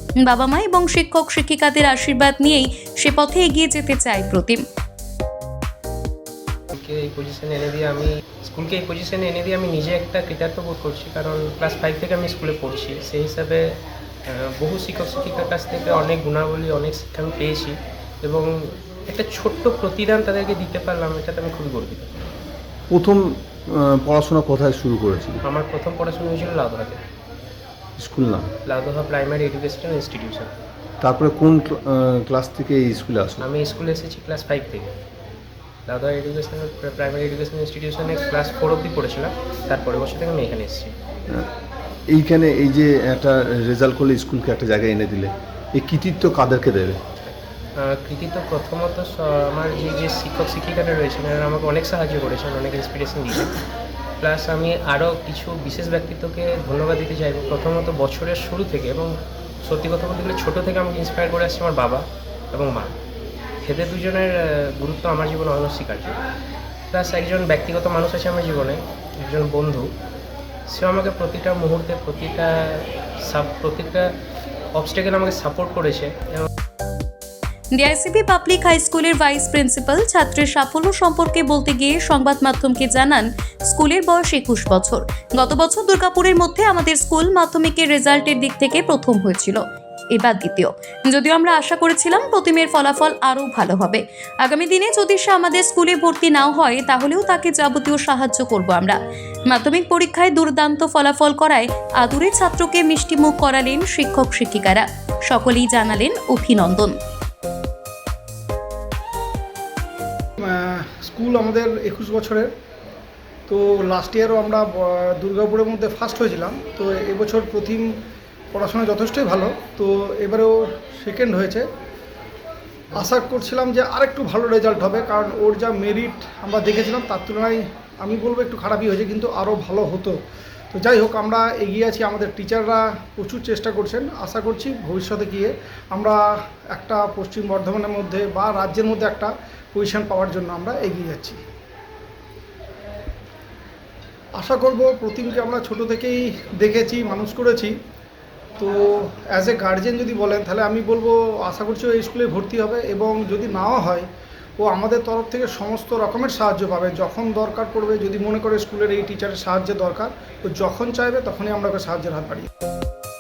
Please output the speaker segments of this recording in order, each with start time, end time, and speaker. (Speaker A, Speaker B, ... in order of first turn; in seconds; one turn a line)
Speaker A: 0.2-4.6
Speaker B: 6.8-13.7
Speaker B: 14.3-22.1
Speaker C: 22.9-25.4
Speaker B: 25.4-27.0
Speaker C: 28.0-28.5
Speaker B: 28.7-30.6
Speaker C: 31.0-33.5
Speaker B: 33.4-34.9
Speaker B: 35.9-41.0
Speaker C: 42.1-47.0
Speaker B: 47.2-53.6
Speaker B: 54.2-63.0
Speaker B: 63.6-66.2
Speaker B: 66.9-69.9
Speaker B: 70.7-74.1
Speaker B: 74.8-76.5
Speaker A: 77.8-89.6
Speaker A: 90.1-99.0
Speaker A: 99.5-107.0
Speaker D: 110.4-112.5
Speaker D: 113.5-117.9
Speaker D: 118.5-121.7
Speaker D: 122.9-130.2
Speaker D: 130.7-136.2
Speaker D: 136.7-141.4
Speaker D: 144.4-147.7
Speaker D: 148.6-154.1
Speaker D: 154.6-162.5